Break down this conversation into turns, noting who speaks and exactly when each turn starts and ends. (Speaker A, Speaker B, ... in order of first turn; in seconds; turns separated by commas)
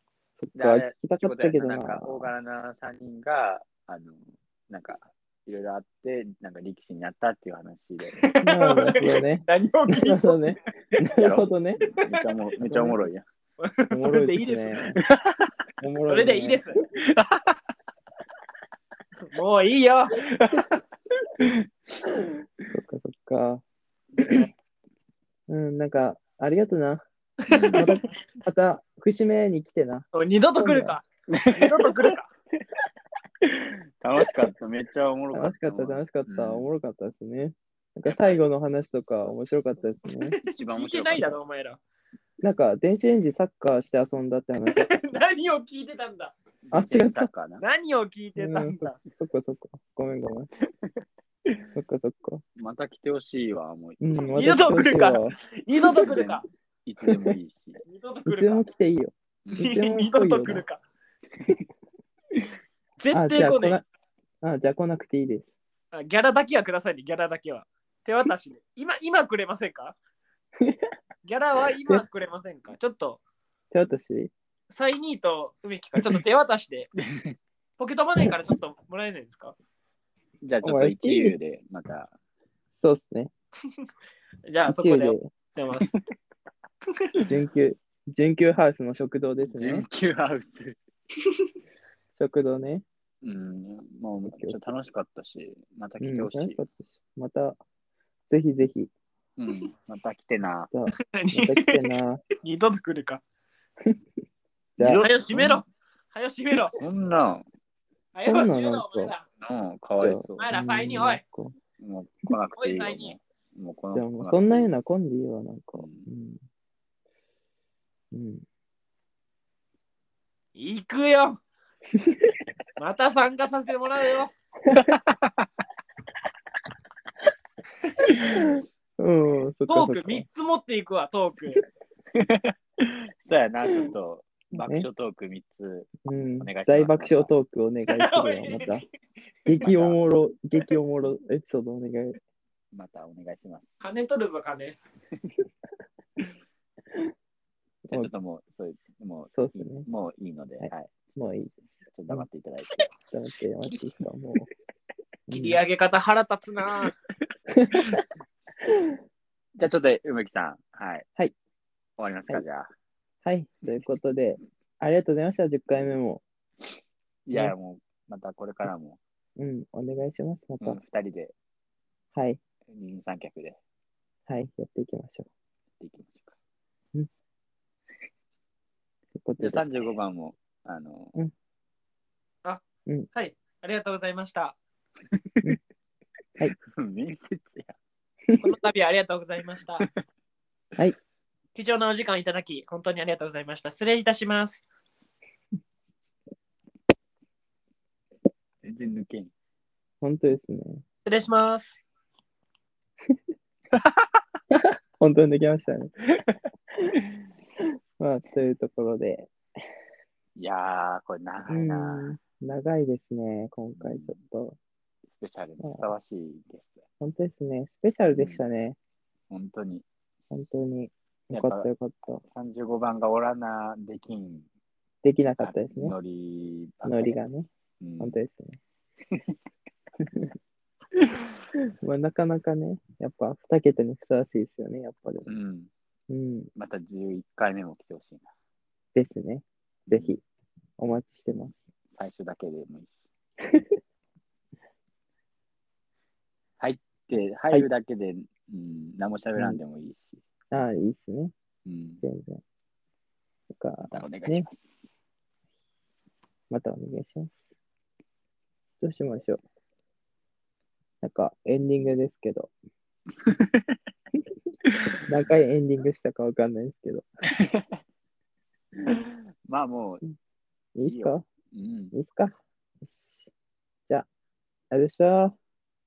Speaker A: 0.4-2.3, Speaker B: 0.6-8.2, Speaker C: 8.2-10.4, Speaker A: 8.4-11.8, Speaker B: 11.1-13.2, Speaker A: 12.6-13.0, Speaker C: 13.6-14.8, Speaker A: 13.9-15.0, Speaker B: 15.0-15.5, Speaker A: 15.8-16.6, Speaker C: 16.1-16.8, Speaker B: 17.1-17.6, Speaker C: 19.2-20.2, Speaker B: 20.2-20.8, Speaker A: 22.7-23.6, Speaker B: 24.2-24.4, Speaker A: 25.5-27.0, Speaker C: 27.5-28.1, Speaker B: 27.5-27.9, Speaker A: 27.7-31.0, Speaker C: 30.1-32.3, Speaker B: 31.3-32.2, Speaker B: 33.4-36.7, Speaker A: 35.3-40.4, Speaker C: 38.1-38.4, Speaker C: 40.3-41.8, Speaker B: 40.5-41.4, Speaker A: 42.4-44.9, Speaker C: 44.8-46.4, Speaker B: 46.7-47.6, Speaker A: 46.7-47.3, Speaker C: 47.6-49.0, Speaker A: 48.4-50.5, Speaker A: 51.8-52.4, Speaker B: 52.6-54.6, Speaker A: 54.0-55.3, Speaker C: 54.4-56.4, Speaker B: 56.0-57.8, Speaker C: 57.8-58.7, Speaker A: 58.3-60.6, Speaker B: 59.5-59.7, Speaker C: 59.6-60.8, Speaker C: 63.0-63.8, Speaker A: 63.1-63.8, Speaker A: 64.4-65.5, Speaker C: 65.9-70.0, Speaker A: 70.6-70.9, Speaker C: 71.2-73.2, Speaker A: 73.7-74.3, Speaker C: 74.7-76.9, Speaker B: 77.0-77.4, Speaker C: 77.8-79.5, Speaker A: 78.2-78.5, Speaker B: 80.4-82.1, Speaker A: 80.6-81.3, Speaker A: 82.8-83.3, Speaker C: 84.5-85.9, Speaker A: 84.7-85.2, Speaker A: 87.2-89.8, Speaker B: 89.5-90.8, Speaker A: 92.2-92.8, Speaker B: 93.2-96.6, Speaker A: 94.2-94.6, Speaker A: 96.0-97.6, Speaker A: 98.3-98.9, Speaker B: 99.4-100.7, Speaker A: 100.7-102.2, Speaker C: 101.0-101.8, Speaker C: 102.4-103.2, Speaker A: 104.8-105.1, Speaker B: 104.8-105.6, Speaker C: 105.0-106.8, Speaker B: 106.7-107.5, Speaker C: 108.1-109.2, Speaker A: 108.2-109.1, Speaker B: 109.4-110.5, Speaker A: 110.0-111.5, Speaker C: 110.4-111.2, Speaker B: 111.8-114.7, Speaker C: 112.6-113.2, Speaker A: 113.9-116.4, Speaker B: 115.8-116.1, Speaker A: 118.1-118.5, Speaker C: 120.5-121.4, Speaker A: 121.9-122.3, Speaker C: 122.8-124.3, Speaker A: 124.7-125.0, Speaker B: 124.7-125.5, Speaker A: 128.2-130.2, Speaker C: 129.7-131.6, Speaker B: 132.1-137.3, Speaker A: 134.6-134.8, Speaker A: 136.1-138.8, Speaker C: 137.9-138.8, Speaker A: 139.4-142.2, Speaker B: 139.6-140.0, Speaker B: 142.7-143.7, Speaker C: 143.8-144.8, Speaker B: 147.9-150.9, Speaker A: 149.3-149.9, Speaker A: 150.6-151.6, Speaker B: 151.9-152.9, Speaker A: 153.1-154.5, Speaker A: 155.3-155.6, Speaker C: 155.3-156.9, Speaker A: 157.5-158.0, Speaker A: 158.6-159.0, Speaker B: 159.6-161.1, Speaker B: 162.0-162.7, Speaker A: 163.2-166.2, Speaker B: 167.3-169.0, Speaker A: 169.4-170.8, Speaker B: 170.6-171.3, Speaker A: 172.1-172.4, Speaker B: 172.7-173.6, Speaker A: 174.3-175.3, Speaker B: 175.8-176.4, Speaker A: 179.2-179.7, Speaker B: 179.4-181.2, Speaker C: 183.1-184.6, Speaker B: 185.2-185.4, Speaker B: 186.7-187.8, Speaker A: 188.3-188.6, Speaker C: 188.4-189.8, Speaker C: 191.6-194.7, Speaker B: 198.6-199.3, Speaker A: 200.0-200.8, Speaker C: 201.1-201.8, Speaker B: 203.7-204.2, Speaker A: 204.5-205.9, Speaker A: 208.0-209.3, Speaker B: 210.4-212.2, Speaker A: 211.5-214.6, Speaker B: 213.8-214.2, Speaker B: 215.1-216.8, Speaker A: 215.6-215.9, Speaker A: 217.0-218.8, Speaker B: 218.1-218.4, Speaker B: 219.3-219.9, Speaker A: 220.3-222.2, Speaker B: 221.3-221.7, Speaker B: 222.2-224.5, Speaker A: 225.0-225.9, Speaker B: 225.4-227.2, Speaker A: 226.8-228.6, Speaker B: 227.8-228.2, Speaker B: 231.0-231.3, Speaker A: 231.8-235.3, Speaker B: 235.2-235.7, Speaker A: 236.1-236.5, Speaker B: 236.6-238.3, Speaker A: 238.9-240.2, Speaker B: 239.9-240.2, Speaker A: 240.8-241.5, Speaker B: 241.9-243.0, Speaker B: 246.6-250.2, Speaker A: 250.5-251.3, Speaker B: 251.7-252.0, Speaker A: 252.0-252.4, Speaker A: 253.5-254.5, Speaker B: 253.8-254.9, Speaker A: 256.5-257.4, Speaker A: 258.8-259.4, Speaker A: 261.0-262.5, Speaker B: 263.2-263.8, Speaker B: 264.7-265.3, Speaker A: 265.1-267.1, Speaker B: 267.3-267.7, Speaker B: 268.8-270.0, Speaker A: 270.8-271.2, Speaker B: 270.9-271.9, Speaker A: 271.9-273.3, Speaker A: 274.7-275.4